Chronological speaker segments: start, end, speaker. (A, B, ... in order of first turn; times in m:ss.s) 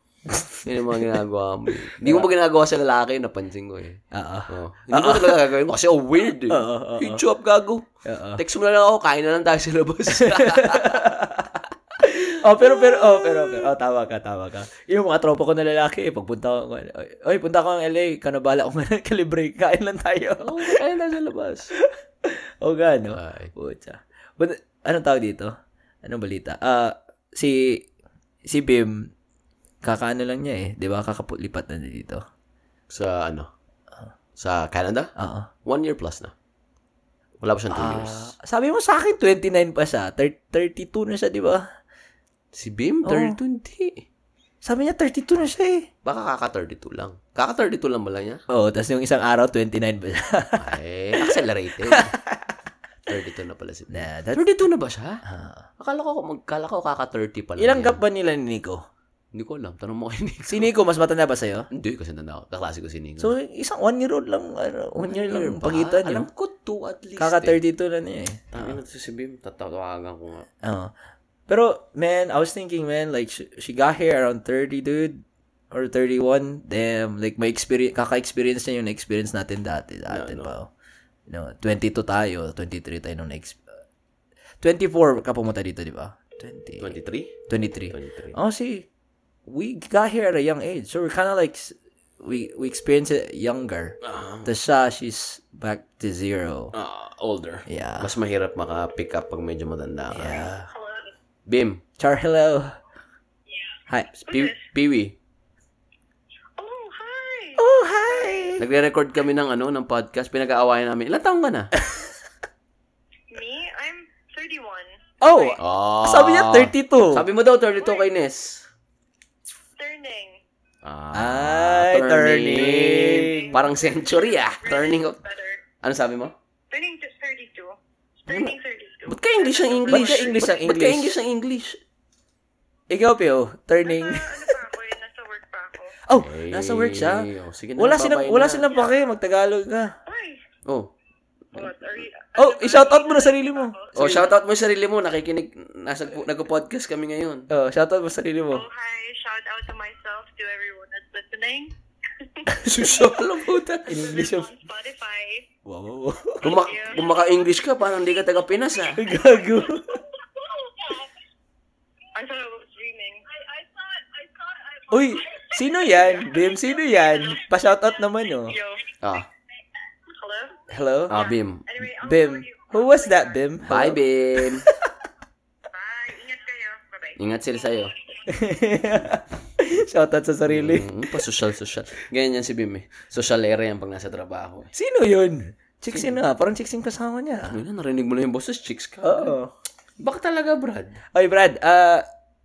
0:00.3-0:01.2 A
0:00.6-0:11.2 B
0:01.8-0:02.3 A
0:04.1-0:05.5 A
0:06.5-0:07.2 A
0:08.0-0:08.4 A
0:10.1-0:20.8 A
0:12.5-0:13.7 B
0:20.4-0:21.7 B
0:21.7-0:25.5 A
0:23.1-0:23.5 B
0:26.0-0:27.9 A
0:28.5-0:29.1 A
0:29.8-0:32.2 A
0:32.9-0:33.5 B
0:34.4-0:35.1 B
0:35.2-0:35.5 A
0:35.6-0:36.3 B
0:37.4-0:38.3 B
0:37.7-0:41.6 A
0:42.5-0:44.1 B
0:43.0-0:43.4 A
0:44.6-0:45.9 A
0:46.0-0:48.4 B
0:48.5-0:52.5 A
0:50.6-0:52.2 B
0:53.1-0:55.2 B
0:53.9-0:54.4 A
0:55.2-0:55.7 A
0:55.8-0:58.0 B
0:57.6-0:58.8 A
0:59.3-1:00.7 B
1:00.5-1:01.7 A
1:01.7-1:03.3 B
1:03.2-1:06.3 A
1:05.0-1:07.6 B
1:07.2-1:08.8 A
1:08.5-1:10.5 B
1:10.6-1:10.9 A
1:11.5-1:20.7 A
1:20.1-1:20.5 B
1:21.3-1:23.8 A
1:24.6-1:27.0 A
1:26.8-1:28.4 B
1:27.5-1:28.9 A
1:29.5-1:36.7 A
1:34.0-1:34.5 B
1:36.7-1:40.5 B
1:37.7-1:38.1 A
1:40.1-1:40.7 A
1:40.7-1:41.1 C
1:41.5-1:41.8 B
1:42.0-1:42.8 A
1:44.2-1:45.2 B
1:44.3-1:44.6 C
1:46.6-1:48.6 C
1:47.6-1:48.6 A
1:48.6-1:51.7 B
1:53.3-1:55.6 C
1:55.2-1:57.3 A
1:55.6-1:58.7 B
1:59.8-2:00.4 C
2:00.8-2:05.2 B
2:01.1-2:03.6 A
2:03.2-2:05.6 C
2:05.8-2:06.4 B
2:06.7-2:10.5 C
2:08.3-2:08.5 B
2:09.1-2:11.8 B
2:09.9-2:11.2 A
2:12.9-2:14.6 A
2:13.8-2:16.0 C
2:16.1-2:20.0 A
2:16.2-2:18.7 B
2:20.1-2:20.4 C
2:20.6-2:20.9 B
2:21.5-2:24.3 C
2:21.6-2:22.0 B
2:22.4-2:24.2 A
2:24.0-2:27.5 B
2:27.5-2:28.6 A
2:28.5-2:33.3 C
2:32.6-2:34.1 B
2:33.9-2:34.5 A
2:33.9-2:35.5 C
2:35.7-2:36.5 A
2:36.4-2:39.0 B
2:36.4-2:37.4 C
2:39.0-2:40.0 A
2:39.5-2:39.8 C
2:40.3-2:41.1 C
2:42.1-2:48.9 C
2:44.9-2:48.6 A
2:49.0-2:49.3 B
2:50.1-2:53.5 C
2:50.7-2:51.2 A
2:51.1-2:51.9 B
2:52.0-2:54.9 A
2:53.6-2:54.7 B
2:55.7-2:58.3 C
2:57.2-2:58.0 B
2:58.3-3:01.1 A
3:00.5-3:04.7 B
3:04.7-3:07.6 A
3:05.9-3:06.2 B
3:07.5-3:09.4 B
3:09.0-3:09.5 A
3:10.0-3:11.0 B
3:11.1-3:12.0 A